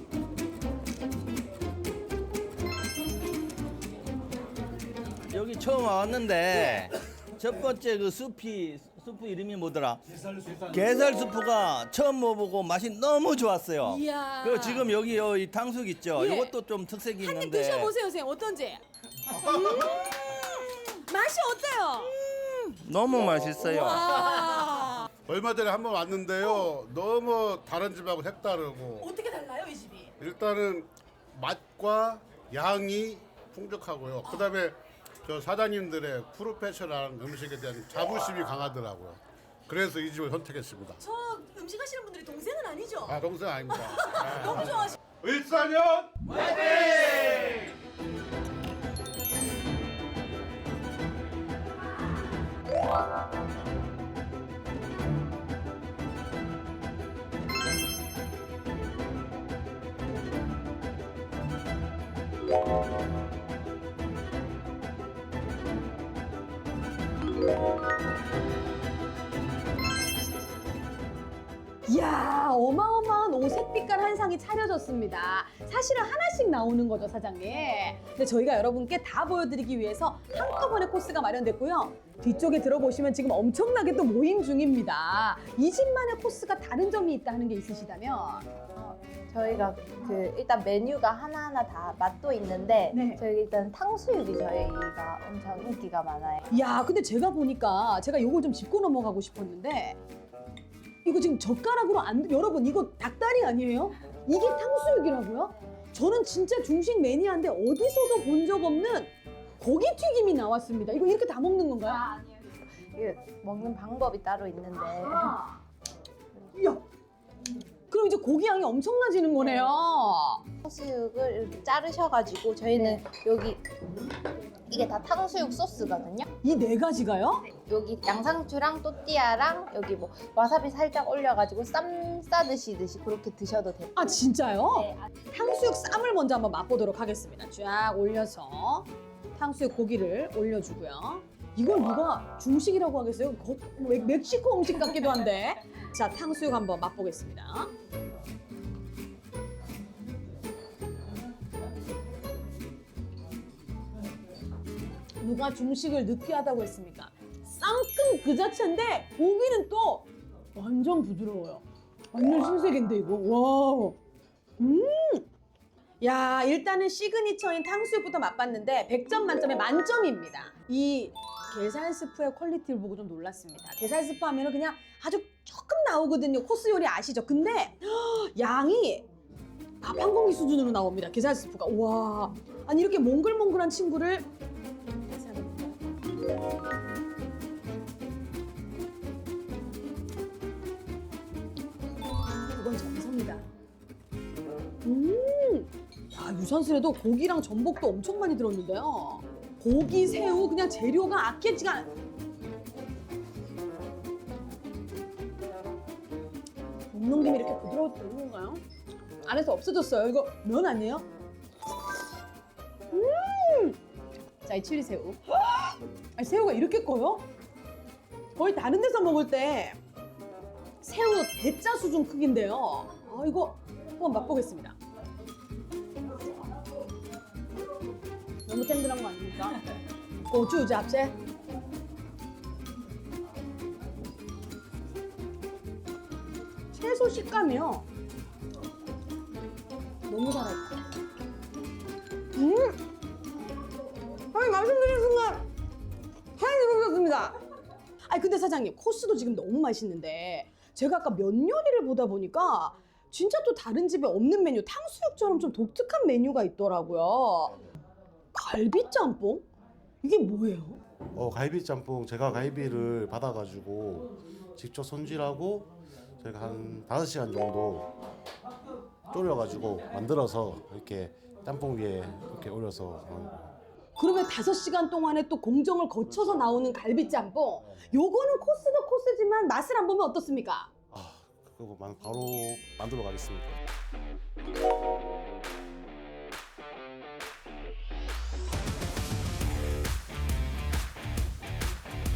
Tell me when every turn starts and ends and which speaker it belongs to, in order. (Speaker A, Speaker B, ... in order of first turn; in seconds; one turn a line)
Speaker A: 5.3-17.9
Speaker B: 13.8-14.9
Speaker B: 16.1-16.5
Speaker B: 17.2-18.8
Speaker B: 19.3-22.6
Speaker A: 22.2-24.1
Speaker B: 23.6-25.1
Speaker C: 25.3-29.1
Speaker B: 29.0-30.1
Speaker C: 30.2-41.0
Speaker B: 34.2-34.5
Speaker B: 41.0-45.0
Speaker C: 43.1-46.1
Speaker C: 46.6-47.1
Speaker B: 71.9-88.5
Speaker D: 88.7-96.5
Speaker B: 92.9-93.2
Speaker B: 96.5-100.0
Speaker B: 101.0-112.0
Speaker D: 111.9-115.4
Speaker B: 114.9-115.5
Speaker B: 116.5-116.8
Speaker B: 117.9-120.4
Speaker D: 120.6-123.6
Speaker D: 124.7-126.3
Speaker B: 126.4-127.5
Speaker D: 127.5-134.2
Speaker B: 133.9-147.7
Speaker B: 155.2-161.6
Speaker B: 162.1-164.0
Speaker B: 164.6-165.2
Speaker B: 166.0-179.1
Speaker B: 179.8-184.2
Speaker B: 185.0-185.8
Speaker B: 192.3-193.4
Speaker B: 194.8-201.9
Speaker B: 206.9-208.6
Speaker B: 209.2-211.1
Speaker B: 212.9-213.8
Speaker B: 214.4-217.2
Speaker B: 218.3-219.8
Speaker B: 220.8-224.8
Speaker B: 228.4-229.6
Speaker B: 230.2-231.1
Speaker B: 236.7-237.8
Speaker B: 240.1-240.9
Speaker B: 242.3-242.8
Speaker B: 244.3-245.4
Speaker B: 246.4-247.3
Speaker B: 248.1-257.6
Speaker B: 258.3-259.4
Speaker B: 260.0-260.8
Speaker E: 261.1-267.9
Speaker E: 269.1-273.5
Speaker B: 274.0-280.7
Speaker E: 280.9-283.6